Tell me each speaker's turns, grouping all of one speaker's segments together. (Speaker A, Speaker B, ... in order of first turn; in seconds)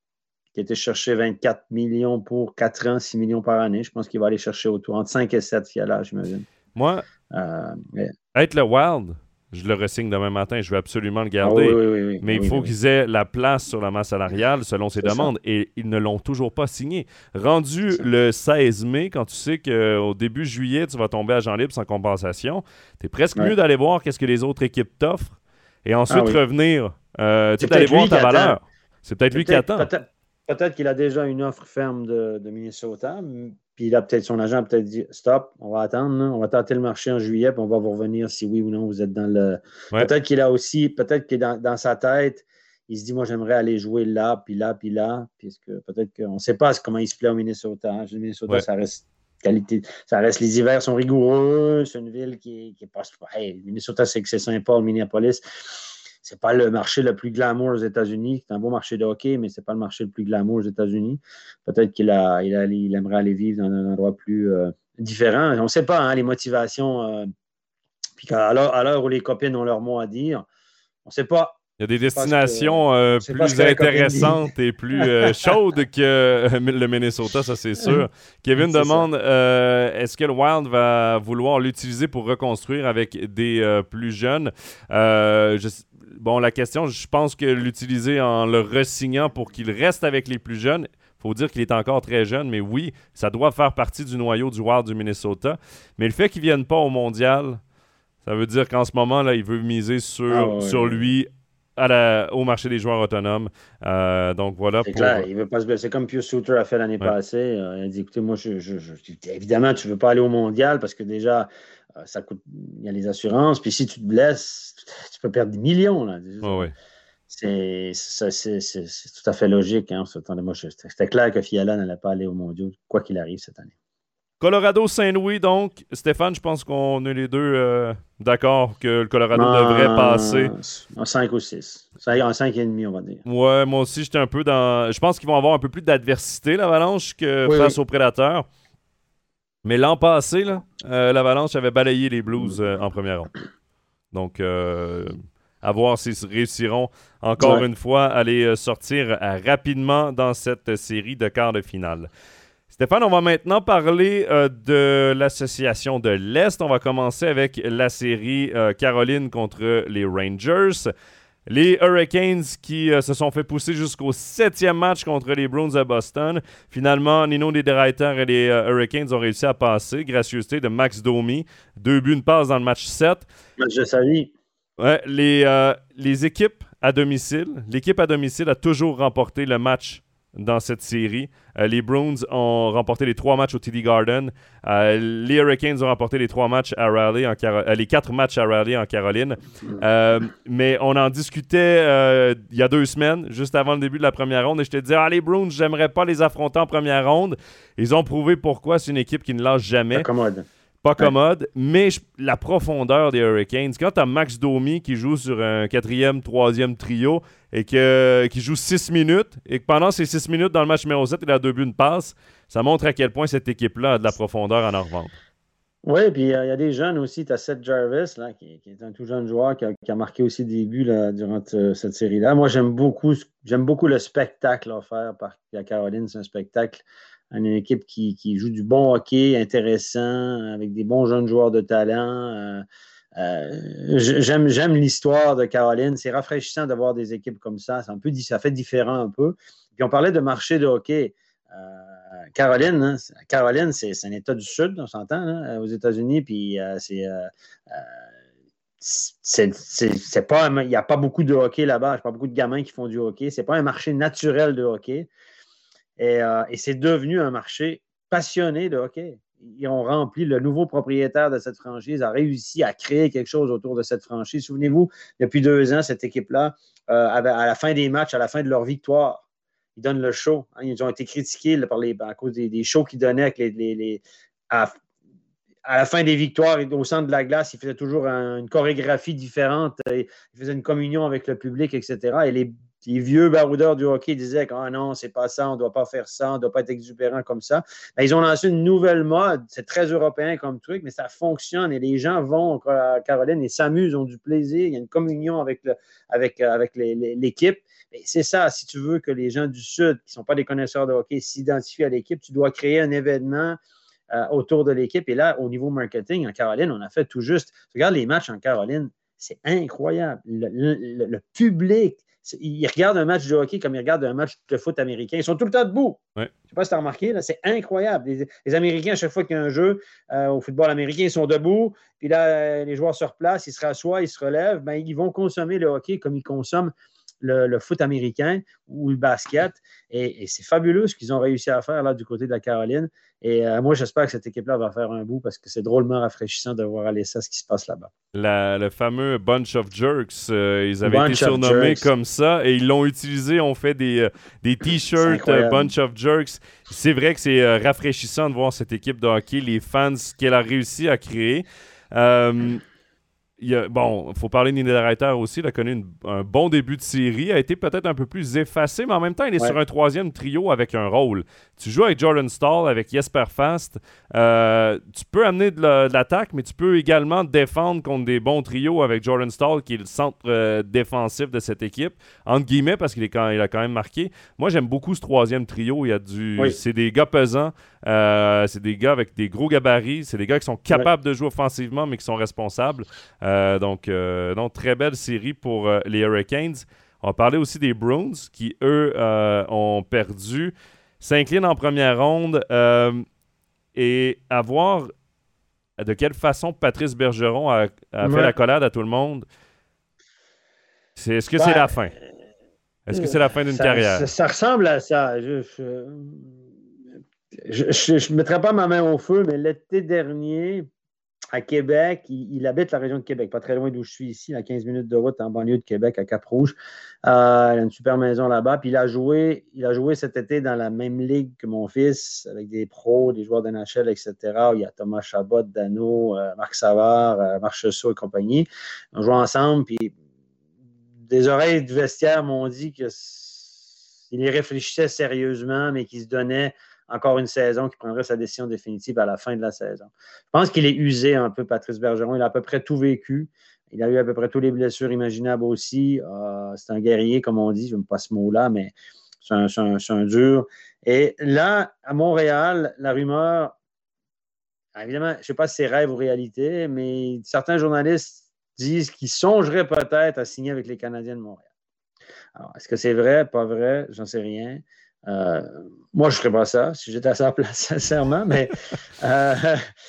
Speaker A: 0.5-6.4, 7.3-8.1, 11.4-12.7, 15.0-15.3, 26.1-26.4, 27.6-28.6, 29.3-55.4, 56.2-67.3, 68.2-70.5, 71.0-71.6, 72.1-74.4, 75.0-75.3, 78.6-79.1, 100.3-101.1, 104.8-116.7, 117.3-123.7, 129.3-133.2, 137.4-137.8, 147.4-147.6, 173.6-174.3, 199.9-200.4, 215.8-232.6, 233.2-247.9, 248.8-255.1, 256.0-269.2, 269.8-274.7, 275.6-303.6, 304.1-337.9, 340.8-341.9, 345.0-345.7, 398.0-398.3, 401.4-402.0, 402.9-406.3, 407.4-410.7, 411.3-429.9, 431.1-453.6, 454.8-461.4, 462.4-469.6
Speaker B: 6.7-7.0, 8.3-29.9, 71.8-97.6, 98.2-105.3, 116.4-116.7, 124.4-130.5, 133.2-138.5, 139.6-143.3, 144.1-152.1, 152.7-160.9, 161.5-173.2, 174.8-200.1, 200.8-215.1, 338.1-352.6, 353.4-393.0, 393.7-394.9, 395.8-399.3, 401.0-401.9, 402.9-404.1